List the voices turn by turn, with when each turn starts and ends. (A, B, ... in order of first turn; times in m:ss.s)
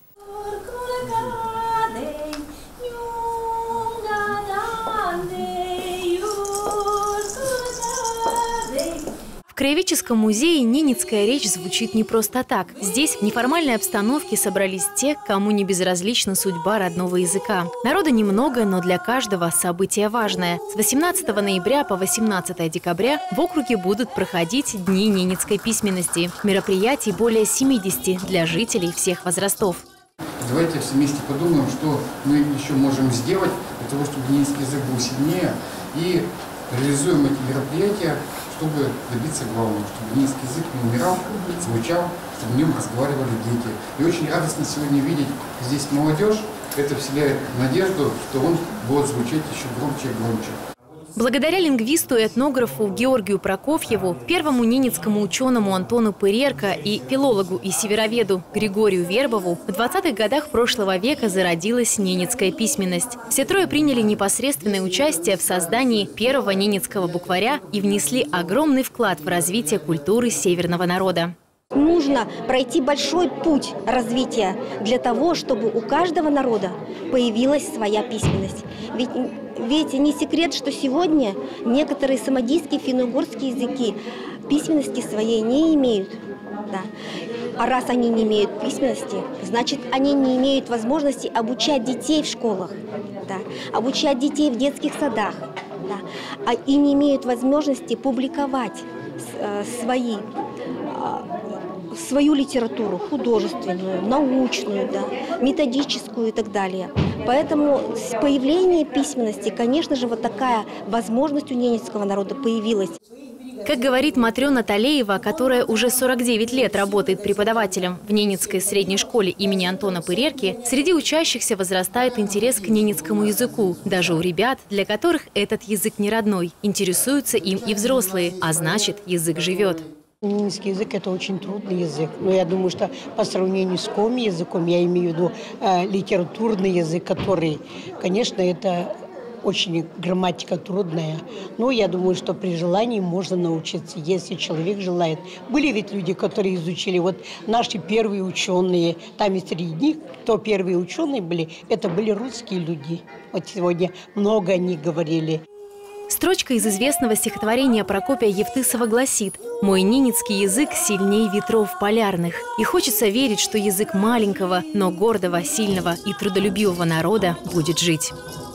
0:00.5-0:02.2 A
0:02.9-0:07.5 A
0:09.5-0:29.8 A
0:30.4-0:50.6 B
0:51.2-1:11.3 A
1:11.7-1:26.2 C
1:27.6-1:40.2 C
1:40.9-1:41.3 C
1:41.9-1:53.0 C
1:53.6-2:09.8 A
2:10.2-2:18.9 D
2:19.4-2:35.4 D
2:36.1-2:48.1 A